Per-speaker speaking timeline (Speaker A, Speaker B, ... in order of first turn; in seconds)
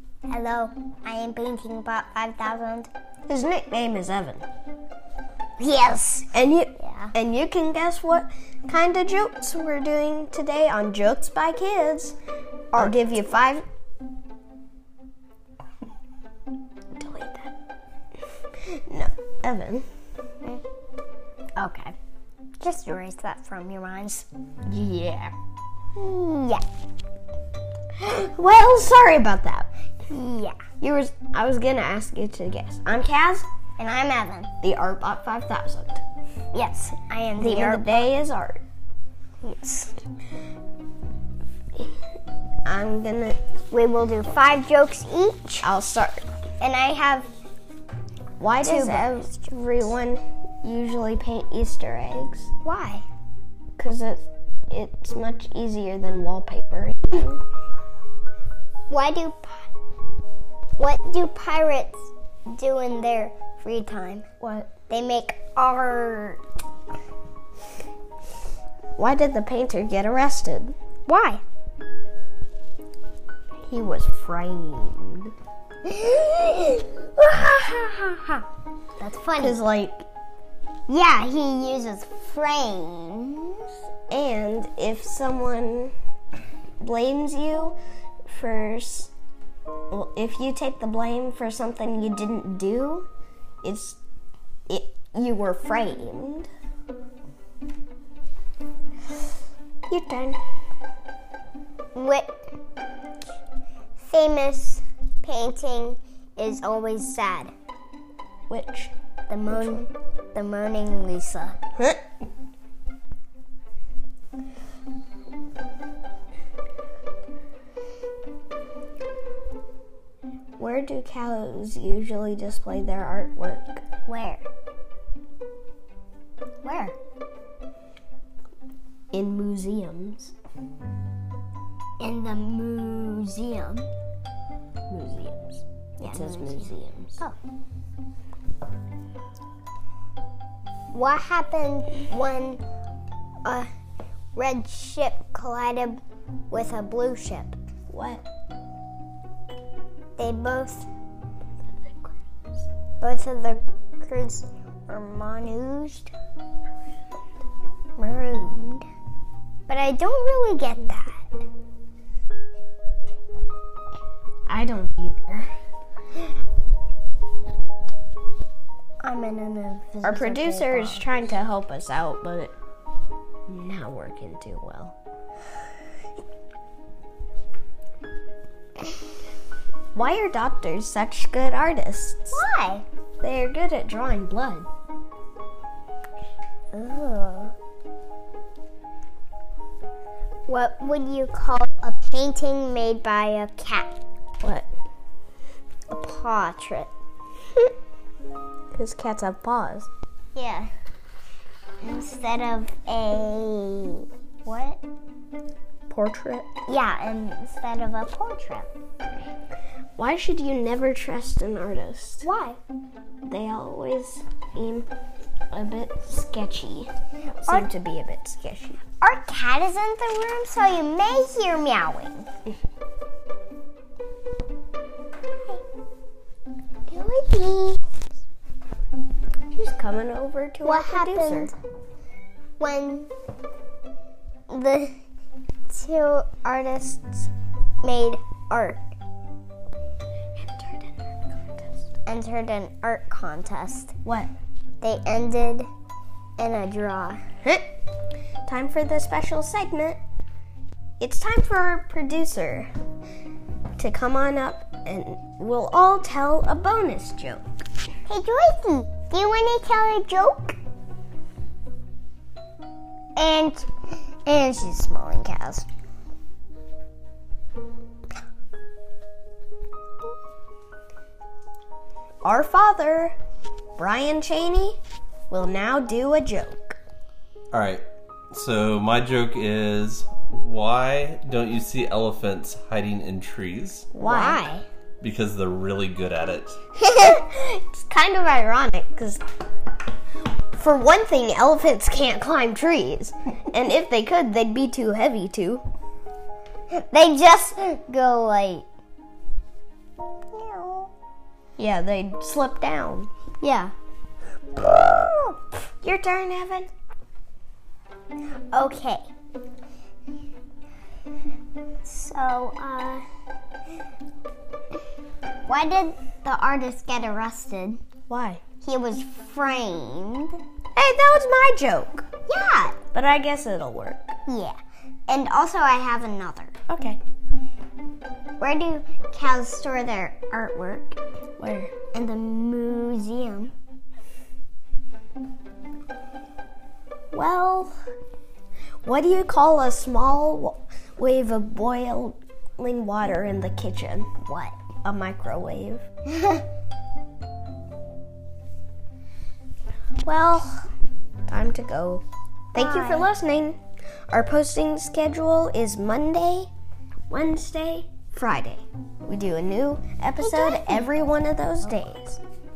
Speaker A: 0.3-2.9, 5.6-7.1, 12.7-13.0, 22.6-24.3, 25.9-26.6, 30.1-30.6, 33.8-34.5, 36.5-38.1, 39.4-40.0, 43.7-45.7, 46.6-47.3, 48.6-49.5, 52.6-53.0, 58.9-59.6, 60.8-64.2, 64.9-66.4, 71.1-71.4, 79.0-79.6, 80.9-83.7, 101.9-102.3, 104.0-107.5, 109.3-111.6, 124.0-124.5, 126.6-127.0, 132.0-133.9, 136.0-137.3, 140.9-142.6, 144.3-147.6, 150.2-150.9, 153.0-156.1, 158.0-158.8, 159.7-161.3, 169.0-171.1, 182.3-182.8, 186.7-187.5, 190.5-193.9, 195.9-196.9, 200.3-200.7, 201.8-204.8, 206.7-208.7, 212.2-212.6, 219.0-222.3, 226.9-227.8, 230.6-231.5, 232.6-233.1, 234.5-234.9, 235.7-237.3, 237.8-238.8, 242.1-243.9, 244.8-245.7, 246.4-247.2, 258.1-260.6, 263.1-263.7, 264.2-265.6, 284.0-284.6, 296.7-298.6, 300.3-300.9, 303.4-303.7, 304.6-305.4, 308.5-309.1, 311.8-313.0, 315.4-317.8, 318.6-320.4, 322.3-322.8, 324.3-324.6, 325.1-326.5, 328.4-331.0, 331.9-333.5, 344.2-344.6, 346.1-346.4, 352.5-353.1, 360.2-360.9
Speaker B: 3.3-4.4, 6.3-12.2, 12.7-13.6, 16.9-17.5, 18.6-19.8, 21.6-21.9, 24.7-25.3, 28.0-29.7, 30.8-33.5, 34.6-36.0, 37.4-38.6, 42.6-43.4, 45.6-46.2, 48.4-52.5, 53.8-57.4, 64.4-64.7, 69.0-70.7, 73.6-75.3, 77.2-78.4, 79.4-80.0, 84.1-85.9, 86.8-89.1, 89.9-93.1, 93.6-94.0, 94.7-96.5, 99.9-100.4, 108.5-108.9, 109.5-109.9, 120.6-123.8, 129.1-130.3, 134.9-137.2, 147.9-148.2, 151.7-152.6, 164.4-165.5, 170.0-172.5, 173.5-174.9, 179.9-182.4, 183.2-184.7, 194.4-194.7, 198.7-199.9, 205.9-206.5, 210.0-212.3, 213.2-214.9, 215.5-218.8, 229.5-231.5, 240.3-241.7, 244.0-244.3, 248.4-250.0, 251.0-252.7, 253.8-257.4, 272.2-273.1, 273.8-274.8, 275.3-276.8, 283.9-284.4, 287.0-289.2, 290.5-295.6, 301.6-303.1, 305.8-306.7, 318.1-318.4, 320.7-322.0, 322.9-324.1, 326.7-327.0, 331.4-331.7, 337.1-337.7, 338.8-344.1, 344.8-345.8, 350.0-350.6, 351.3-353.6, 354.1-356.5, 357.1-362.2
Speaker C: 277.5-283.9, 285.0-286.6